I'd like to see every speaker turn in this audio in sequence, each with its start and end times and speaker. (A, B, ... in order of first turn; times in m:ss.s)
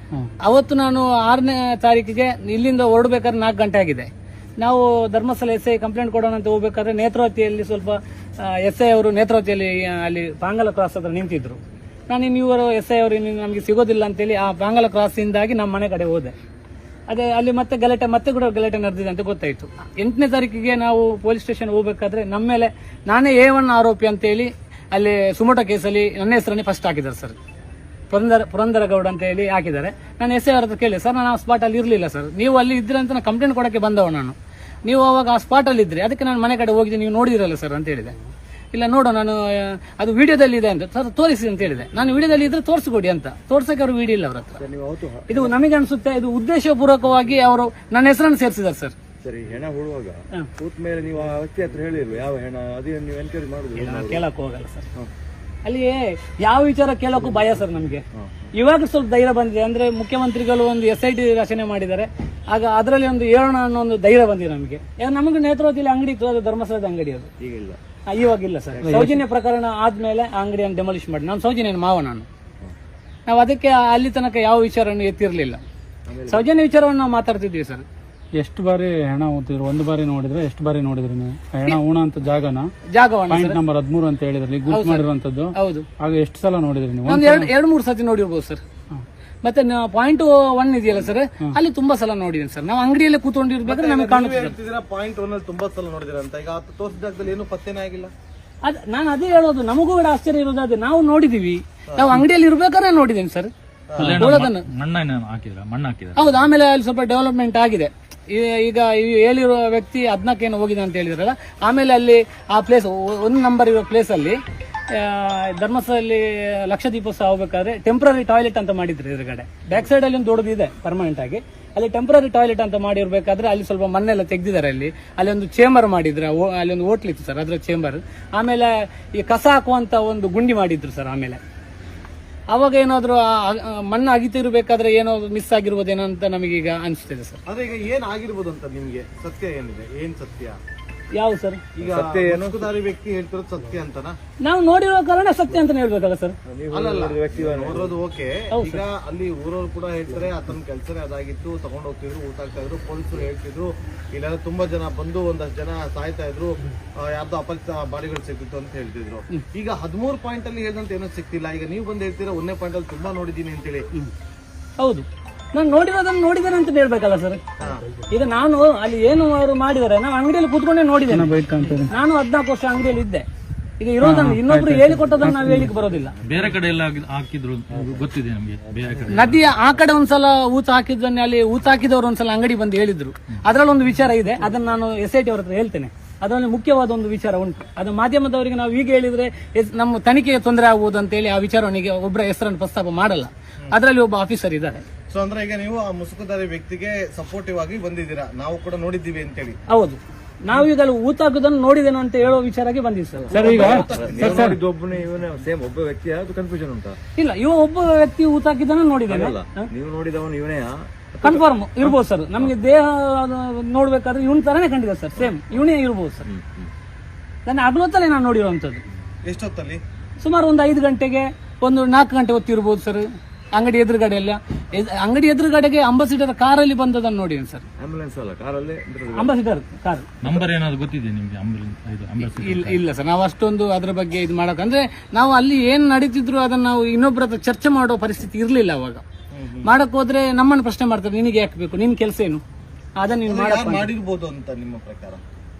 0:00.4-0:16.3 A
0:17.1-0:27.4 A
0:28.1-0:38.1 A
0:38.7-0:44.6 A
0:44.5-0:45.5 B
0:45.3-0:48.9 A
0:49.2-0:54.2 B
0:53.8-0:54.8 A
0:55.6-0:58.0 A
0:58.1-0:58.5 B
0:58.5-1:07.3 A
1:07.4-1:07.8 B
1:08.1-1:12.3 A
1:08.8-1:09.2 B
1:13.3-1:15.6 A
1:16.0-1:16.5 B
1:16.3-1:17.8 A
1:18.4-1:22.7 C
1:22.9-1:23.6 A
1:23.3-1:27.5 C
1:24.7-1:25.8 A
1:27.0-1:28.6 A
1:29.4-1:34.5 A
1:33.7-1:38.1 D
1:38.6-1:44.6 A
1:41.9-1:42.2 D
1:43.9-1:44.3 D
1:44.0-1:46.4 E
1:46.2-1:54.4 A
1:54.9-2:11.4 A
2:12.5-2:17.4 A
2:17.5-2:20.6 D
2:21.1-2:21.6 A
2:21.8-2:24.2 D
2:21.8-2:22.7 B
2:24.4-2:26.4 A
2:26.5-2:28.0 B
2:26.7-2:43.9 D
2:28.5-2:28.8 A
2:44.8-2:47.4 A
2:47.6-2:47.8 D
2:48.1-2:51.3 A
2:51.1-2:51.9 C
2:51.8-2:53.2 A
2:53.8-2:56.1 A
2:54.0-2:55.7 C
2:56.2-2:59.5 E
2:59.1-3:14.8 A
3:15.1-3:19.6 D
3:19.7-3:24.4 A
3:23.2-3:27.0 B
3:23.3-3:24.6 C
3:23.4-3:24.6 D
3:27.2-3:29.7 A
3:29.1-3:32.5 B
3:31.2-3:36.2 A
3:35.2-3:35.6 B
3:36.2-3:36.7 B
3:37.4-3:38.8 A
3:39.2-3:39.8 D
3:40.2-3:47.6 A
3:47.8-3:49.4 B
3:49.1-3:50.1 A
3:50.2-3:52.8 E
3:52.4-3:59.0 A
3:59.3-3:59.7 D
3:59.6-4:02.4 A
4:03.0-4:03.9 A
4:03.2-4:05.2 D